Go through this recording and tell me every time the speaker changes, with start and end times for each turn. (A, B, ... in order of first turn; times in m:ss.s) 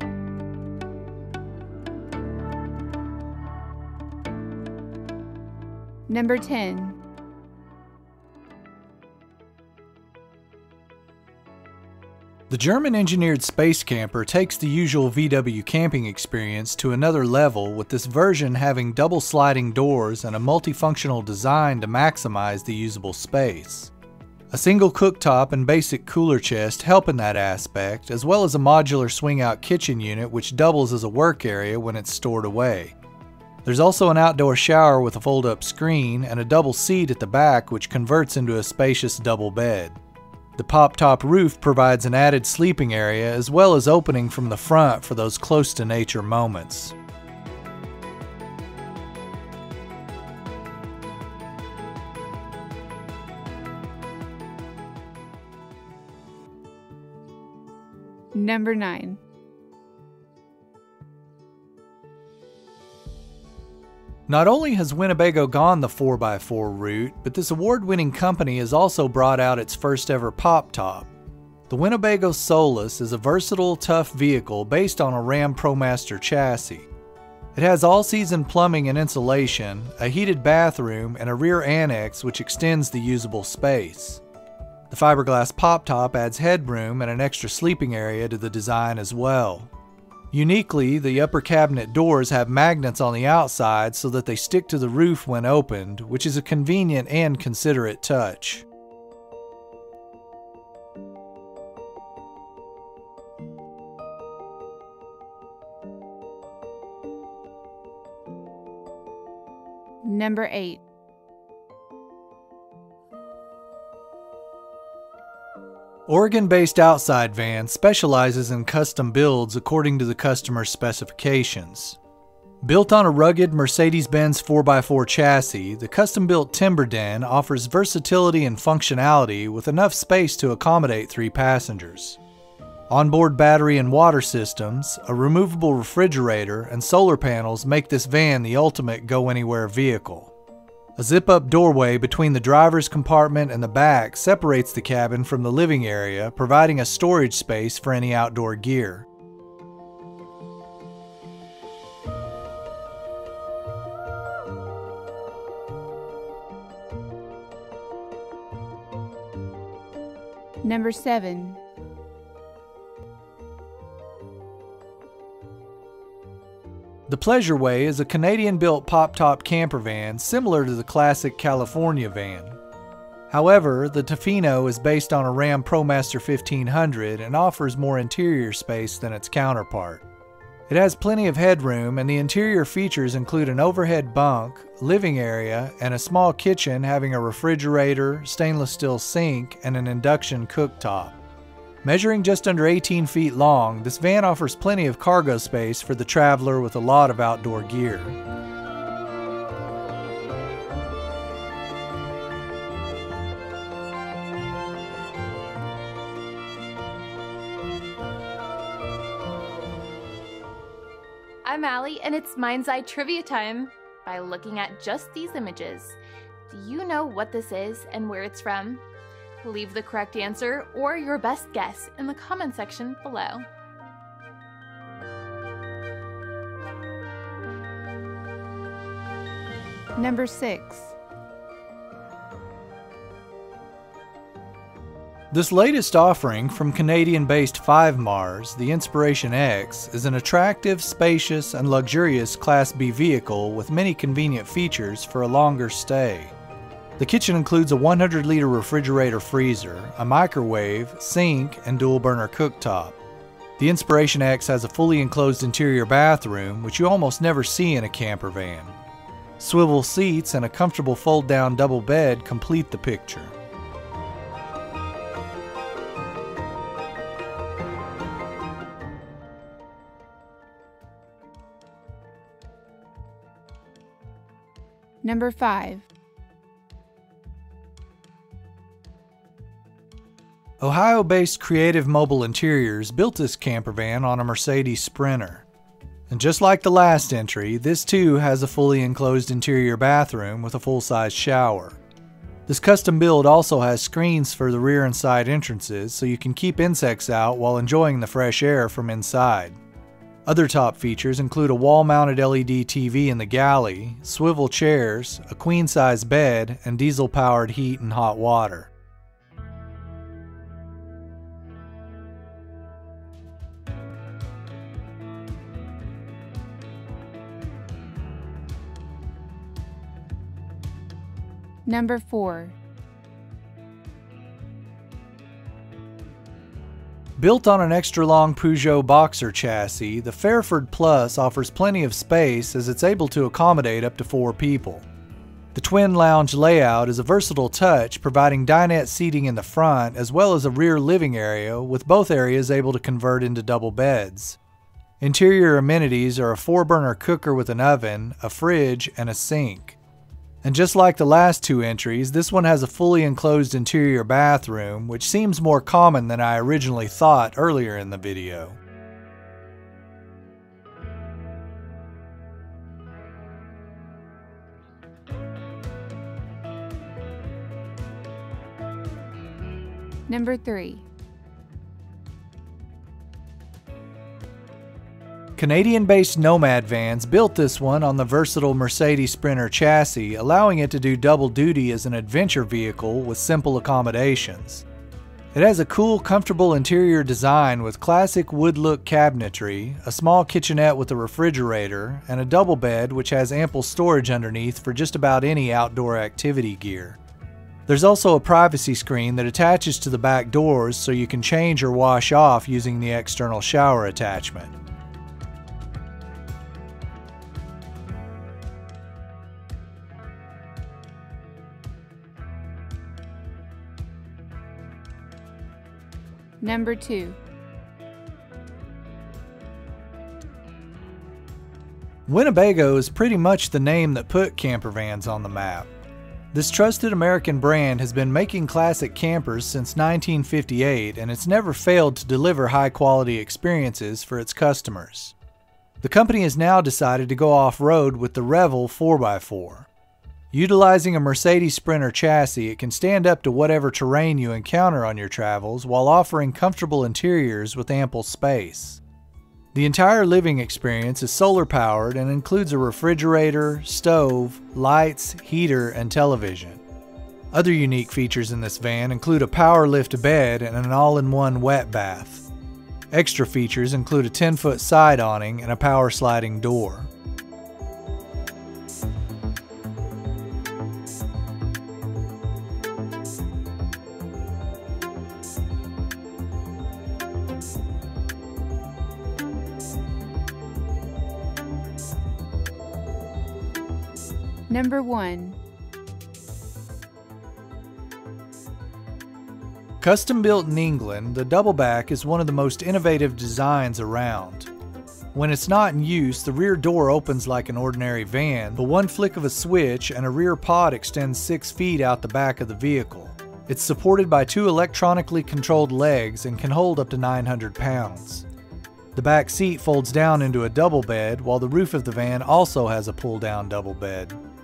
0:06.1-0:07.0 A
0:12.5-0:23.9 B
0:24.5-0:33.0 B
0:33.6-0:40.0 B
0:40.6-0:47.0 B
0:58.3-0:59.2 A
1:04.3-1:11.1 B
1:11.7-1:16.9 B
1:17.5-1:24.2 B
1:24.9-1:29.7 B
1:30.3-1:38.7 B
1:50.0-1:50.8 A
1:56.1-2:02.0 B
2:02.6-2:12.2 B
2:12.9-2:20.3 B
2:21.0-2:29.1 B
2:40.6-2:41.6 A
2:47.1-2:52.6 B
2:53.3-3:00.0 B
3:00.7-3:11.2 B
3:11.8-3:18.2 B
3:31.4-3:36.0 C
3:36.5-3:38.8 C
3:39.4-3:43.5 C
3:50.0-3:51.0 A
3:55.3-4:06.4 B
4:07.0-4:13.0 B
4:13.6-4:18.8 B
4:19.4-4:23.4 B
4:35.0-4:35.9 A
4:40.6-4:45.5 B
4:46.1-4:51.8 B
4:52.5-4:59.6 B
5:00.2-5:08.7 B
5:21.7-5:22.6 A
5:27.2-5:34.9 B
5:35.5-5:44.4 B
5:45.0-5:49.8 B
5:50.4-5:58.6 B
6:10.1-6:10.9 A
6:15.4-6:24.7 B
6:25.3-6:37.0 B
6:37.7-6:44.6 B
6:56.4-6:57.2 A
7:02.1-7:05.7 B
7:06.3-7:15.2 B
7:15.8-7:19.7 B
7:20.3-7:28.8 B
7:29.5-7:36.6 B
7:37.3-7:42.3 B
7:42.9-7:46.9 B
8:04.5-8:05.4 A
8:09.8-8:14.5 B
8:15.1-8:28.3 B
8:28.9-8:34.2 B